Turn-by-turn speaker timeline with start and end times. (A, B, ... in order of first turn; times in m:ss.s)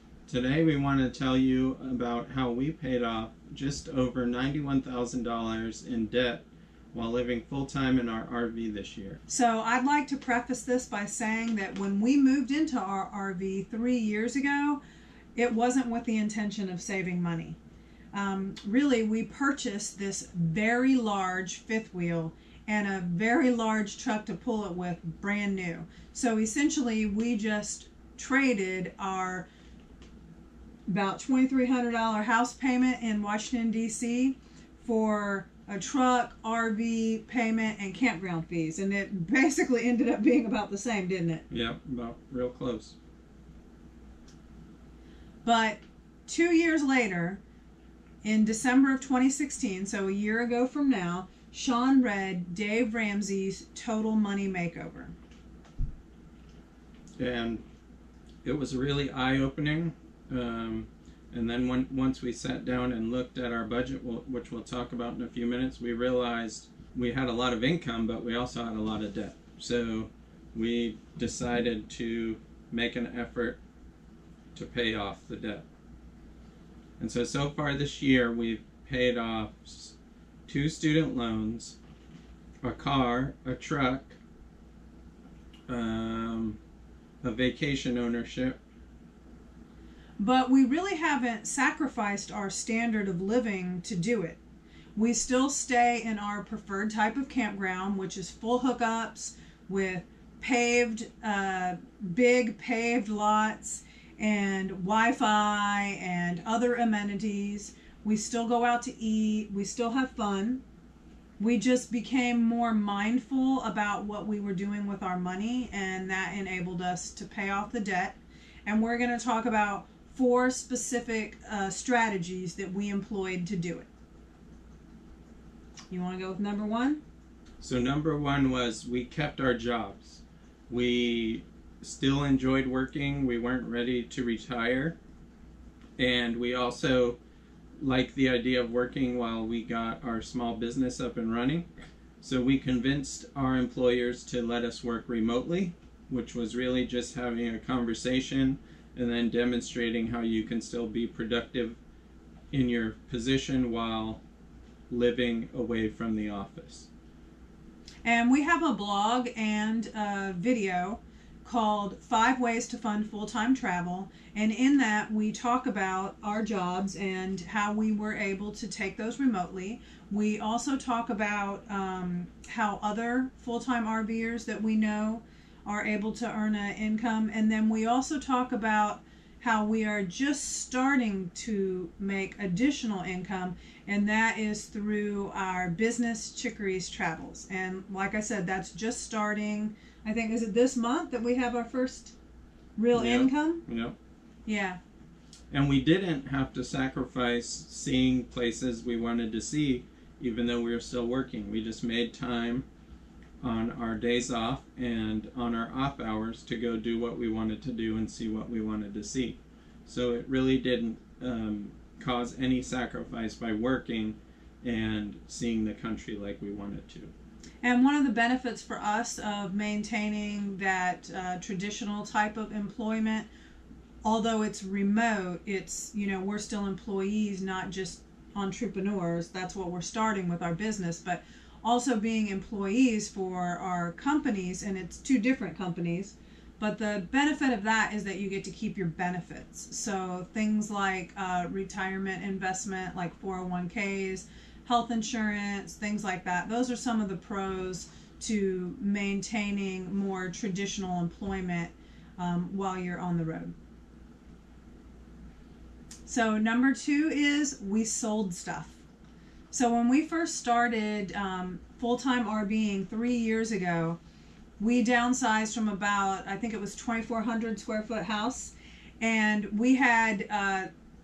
0:00.3-0:09.2 A
0:09.3-0:14.8 B
0:15.4-0:17.6 B
0:18.1-0:29.5 B
0:30.9-0:41.4 B
0:41.5-0:43.0 A
0:45.4-0:47.4 B
0:48.2-0:55.1 B
0:57.2-0:57.6 A
0:58.4-1:13.6 A
1:14.5-1:15.6 A
1:17.0-1:19.9 A
1:20.5-1:21.8 A
1:22.6-1:24.2 A
1:25.7-1:26.6 A
1:27.2-1:28.6 A
1:30.2-1:34.4 B
1:35.0-1:50.6 B
1:51.4-2:03.9 B
2:05.9-2:07.0 B
2:07.6-2:15.0 A
2:16.0-2:17.2 A
2:17.8-2:21.7 A
2:22.2-2:31.8 A
2:32.5-2:34.2 A
2:34.9-2:36.9 A
2:38.0-3:12.1 B
3:12.8-3:13.6 B
3:12.9-3:13.9 A
3:14.4-3:14.8 B
3:15.5-3:22.6 A
3:23.4-3:37.1 A
3:37.6-3:43.3 B
3:44.0-4:13.5 B
4:16.0-4:18.8 B
4:19.5-4:24.0 B
4:24.6-4:30.7 B